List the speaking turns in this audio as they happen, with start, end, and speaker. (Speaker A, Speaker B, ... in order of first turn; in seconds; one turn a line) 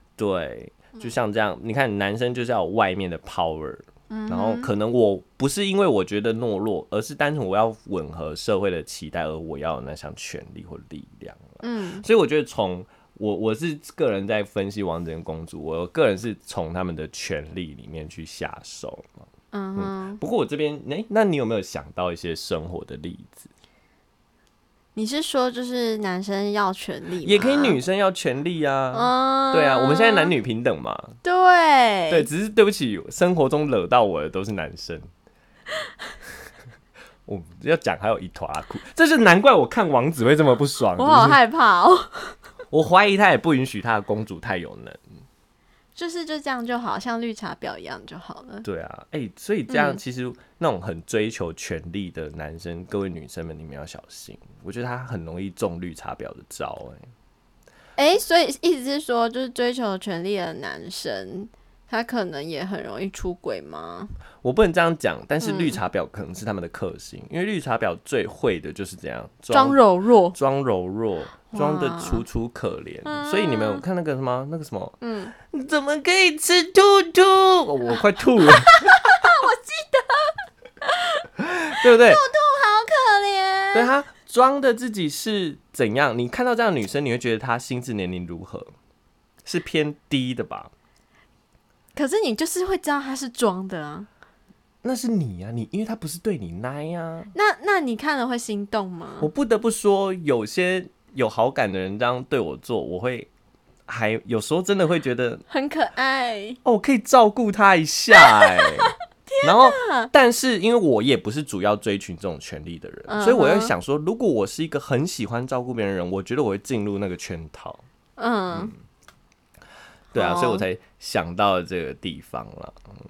Speaker A: 0.2-19.3
Speaker B: 4.1-4.7
Speaker B: 11.6-12.1
Speaker B: 19.5-20.2
Speaker A: 19.8-23.5
Speaker B: 24.9-27.8
Speaker A: 27.2-31.2
Speaker B: 28.9-30.3
Speaker B: 31.2-32.3
Speaker A: 32.1-35.1
Speaker A: 37.3-41.4
Speaker B: 41.0-42.4
Speaker A: 42.7-45.1
Speaker B: 46.0-48.7
Speaker A: 48.6-57.1
Speaker B: 49.7-50.0
Speaker B: 58.0-64.1
Speaker A: 64.4-69.8
Speaker B: 65.4-65.8
Speaker B: 69.5-70.4
Speaker A: 70.3-79.3
Speaker B: 71.5-72.2
Speaker B: 73.0-73.8
Speaker B: 75.0-75.3
Speaker B: 78.4-83.9
Speaker A: 81.4-82.2
Speaker A: 83.7-88.7
Speaker A: 89.5-90.7
Speaker B: 92.0-94.1
Speaker A: 94.8-97.3
Speaker B: 97.3-99.3
Speaker A: 99.2-103.3
Speaker A: 103.9-105.4
Speaker B: 105.5-106.6
Speaker A: 106.7-108.9
Speaker B: 108.3-110.1
Speaker A: 109.4-117.8
Speaker B: 113.1-113.7
Speaker B: 118.2-118.7
Speaker A: 120.1-122.8
Speaker B: 120.2-120.7